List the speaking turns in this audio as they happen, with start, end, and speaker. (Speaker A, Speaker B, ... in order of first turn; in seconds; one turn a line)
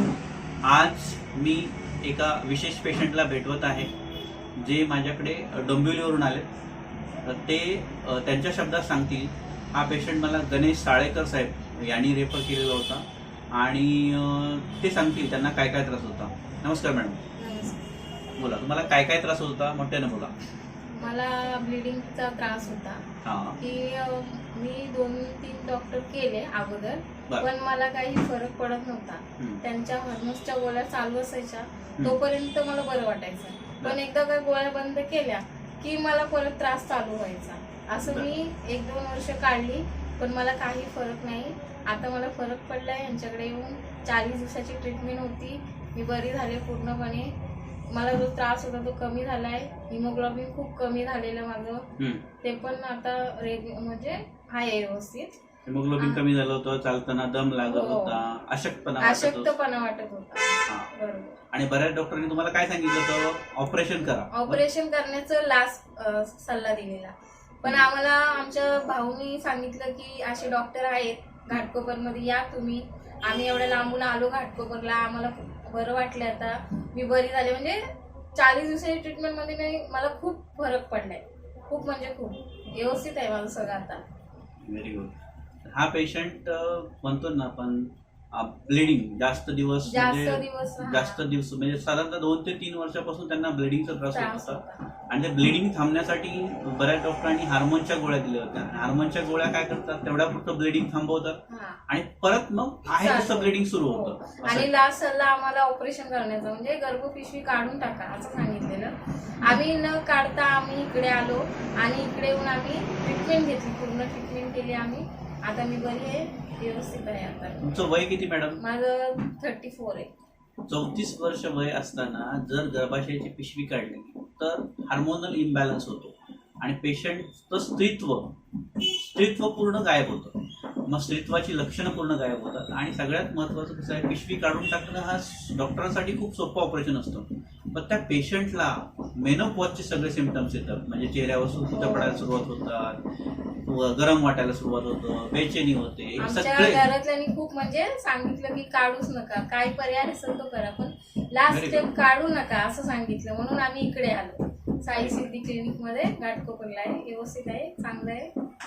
Speaker A: 0.6-3.9
Speaker A: 4.6-6.5
Speaker A: 7.2-17.2
Speaker B: 17.4-17.8
Speaker A: 18.4-20.3
Speaker B: 20.9-23.1
Speaker A: 23.2-23.6
Speaker B: 23.6-47.4
Speaker A: 38.0-38.3
Speaker B: 47.9-51.9
Speaker A: 52.0-52.2
Speaker B: 52.4-55.4
Speaker A: 55.7-59.5
Speaker B: 57.7-58.2
Speaker B: 59.0-61.4
Speaker A: 61.5-64.6
Speaker B: 64.3-77.8
Speaker B: 78.4-84.0
Speaker A: 84.6-85.1
Speaker A: 85.7-104.7
Speaker B: 89.8-91.2
Speaker B: 94.1-94.8
Speaker B: 101.5-101.8
Speaker B: 102.9-117.6
Speaker A: 117.6-118.6
Speaker B: 118.6-120.1
Speaker A: 120.7-143.0
Speaker B: 141.7-142.2
Speaker A: 143.6-146.8
Speaker B: 146.2-158.3
Speaker A: 151.5-151.9
Speaker A: 155.0-155.2